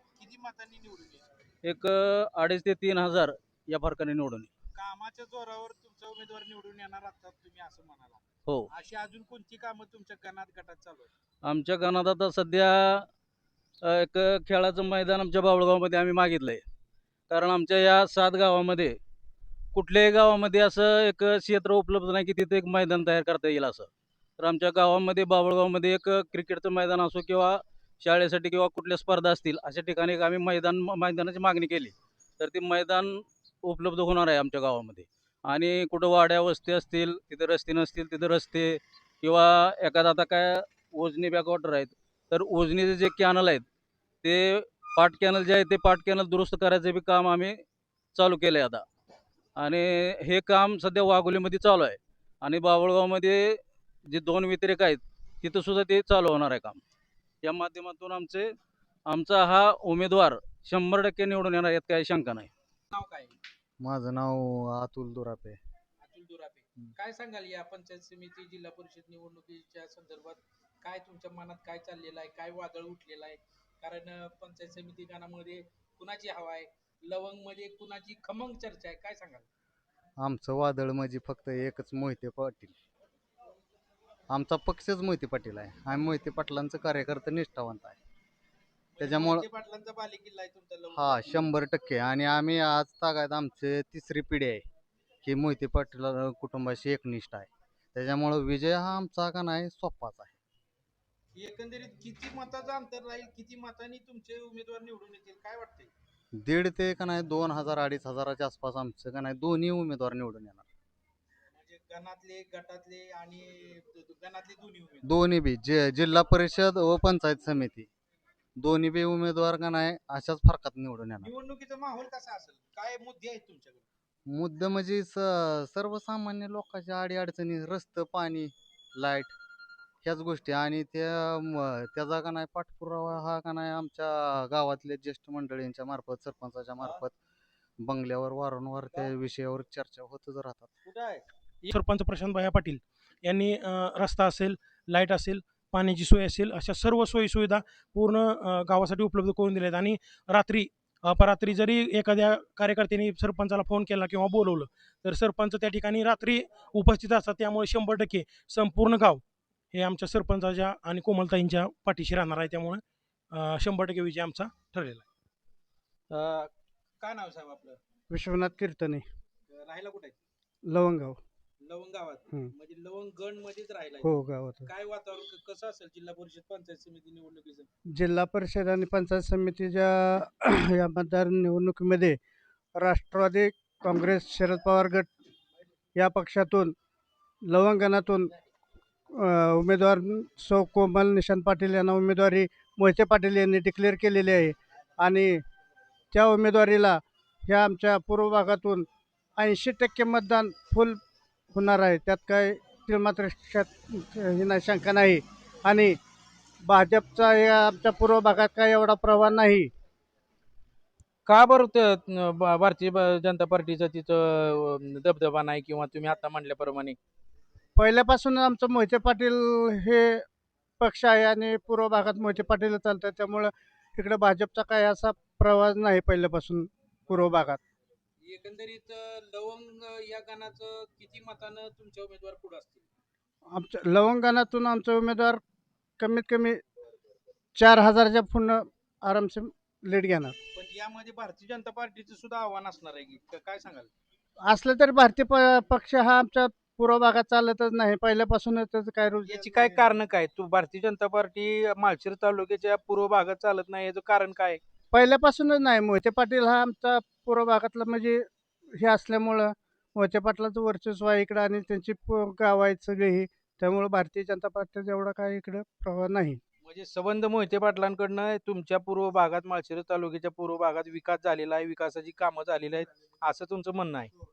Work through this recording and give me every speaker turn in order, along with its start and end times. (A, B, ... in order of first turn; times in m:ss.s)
0:00.2-0:01.2 A
0:01.7-0:04.5 B
0:04.7-0:11.1 A
0:11.5-0:13.0 B
0:14.0-0:16.6 B
0:17.3-0:18.9 B
0:19.7-0:23.9 B
0:24.4-0:43.6 B
0:44.2-0:47.5 B
0:48.2-0:48.8 B
0:49.6-0:53.4 B
0:54.1-0:56.8 B
0:57.4-0:58.4 B
0:59.1-1:02.5 B
1:02.9-1:03.3 A
1:03.8-1:05.6 C
1:06.0-1:19.4 A
1:20.2-1:22.7 C
1:24.3-1:28.0 C
1:28.9-1:31.5 A
1:29.0-1:29.5 C
1:30.9-1:34.6 C
1:35.2-1:40.4 C
1:41.4-1:45.9 A
1:46.4-1:50.6 C
1:51.5-1:55.1 A
1:55.0-1:57.9 C
1:58.6-2:01.3 C
2:01.2-2:03.8 A
2:04.3-2:09.4 C
2:10.0-2:17.1 C
2:17.8-2:20.7 C
2:20.8-2:21.7 A
2:21.7-2:39.2 D
2:39.7-2:45.0 D
2:46.1-2:46.5 A
2:47.0-2:47.8 A
2:48.1-2:49.0 E
2:49.5-2:50.2 A
2:50.7-2:51.2 E
2:51.6-2:54.1 A
2:54.0-2:54.7 E
2:54.6-2:57.7 A
2:58.0-3:02.2 E
3:02.7-3:05.1 E
3:06.0-3:06.7 E
3:07.4-3:08.3 E
3:09.1-3:15.4 E
3:16.1-3:21.0 E
3:21.5-3:26.0 E
3:26.6-3:29.7 E
3:31.2-3:37.0 A
3:37.8-3:40.2 E
3:40.8-3:47.6 E
3:48.2-3:52.8 A
3:53.5-3:55.4 E
3:56.0-3:56.6 E
3:57.5-4:00.4 E
4:00.5-4:03.9 A
4:04.4-4:10.0 E
4:09.2-4:14.6 A
4:14.9-4:18.3 E
4:18.8-4:26.4 E
4:26.6-4:34.1 A